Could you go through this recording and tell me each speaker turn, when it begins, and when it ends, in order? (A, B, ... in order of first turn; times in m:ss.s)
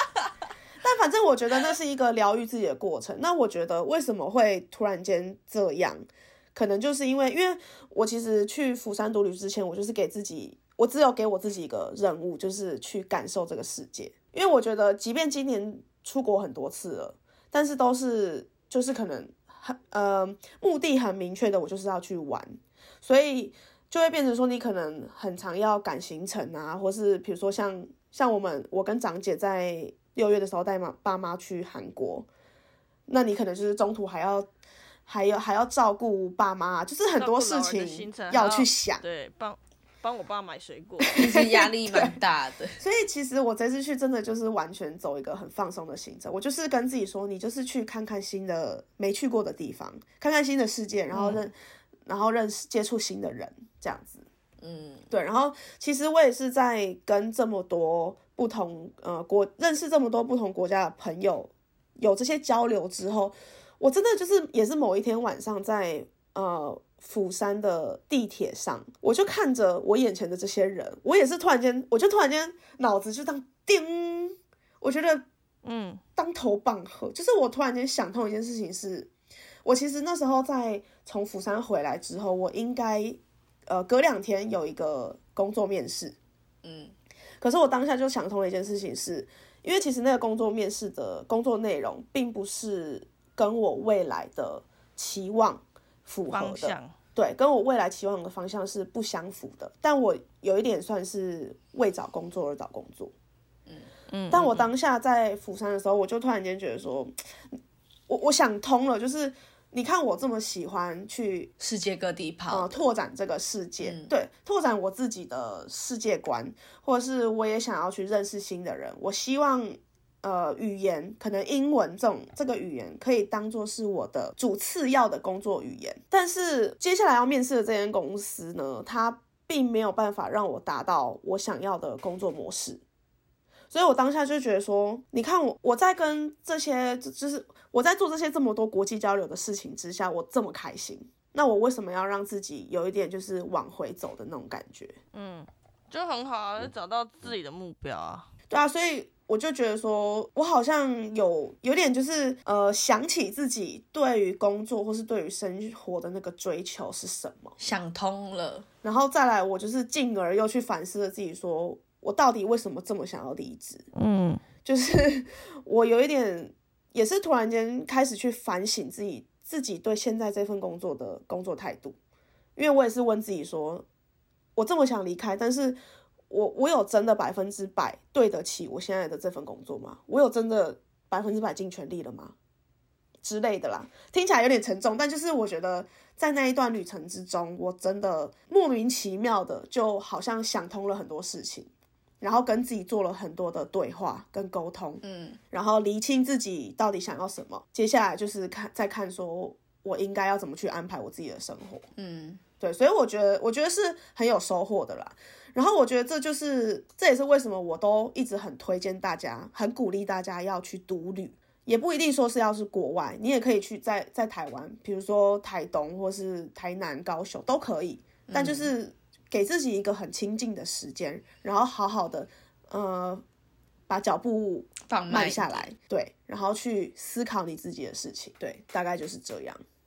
0:00.8-0:32.3 A
0:33.1-0:34.5 A
0:35.1-0:39.0 A
0:37.2-0:41.2 B
0:41.0-0:42.2 A
0:41.1-0:42.8 C
0:42.8-0:51.5 A
0:51.1-0:51.4 C
0:52.1-0:54.3 A
0:54.6-0:55.1 C
0:55.1-1:15.2 A
1:15.6-1:16.0 B
1:16.2-1:19.1 A
1:19.6-1:26.2 A
1:26.6-1:26.9 C
1:27.4-1:43.1 A
1:36.3-1:36.9 B
1:44.1-1:44.6 B
1:44.3-1:47.2 A
1:48.1-1:51.5 A
1:51.6-1:52.8 C
1:52.5-2:12.8 A
1:53.8-1:54.1 C
2:13.7-2:25.0 A
2:25.1-2:28.3 B
2:28.5-2:37.6 A
2:37.6-2:38.7 C
2:38.8-2:43.9 A
2:44.0-2:44.4 B
2:44.6-2:52.0 A
2:52.6-2:53.9 A
2:54.6-2:55.8 A
2:56.3-3:02.4 A
3:03.2-3:21.9 A
3:15.0-3:15.4 C
3:22.0-3:22.4 C
3:22.6-3:43.2 A
3:38.3-3:38.7 C
3:43.9-3:49.6 A
3:44.9-3:45.7 C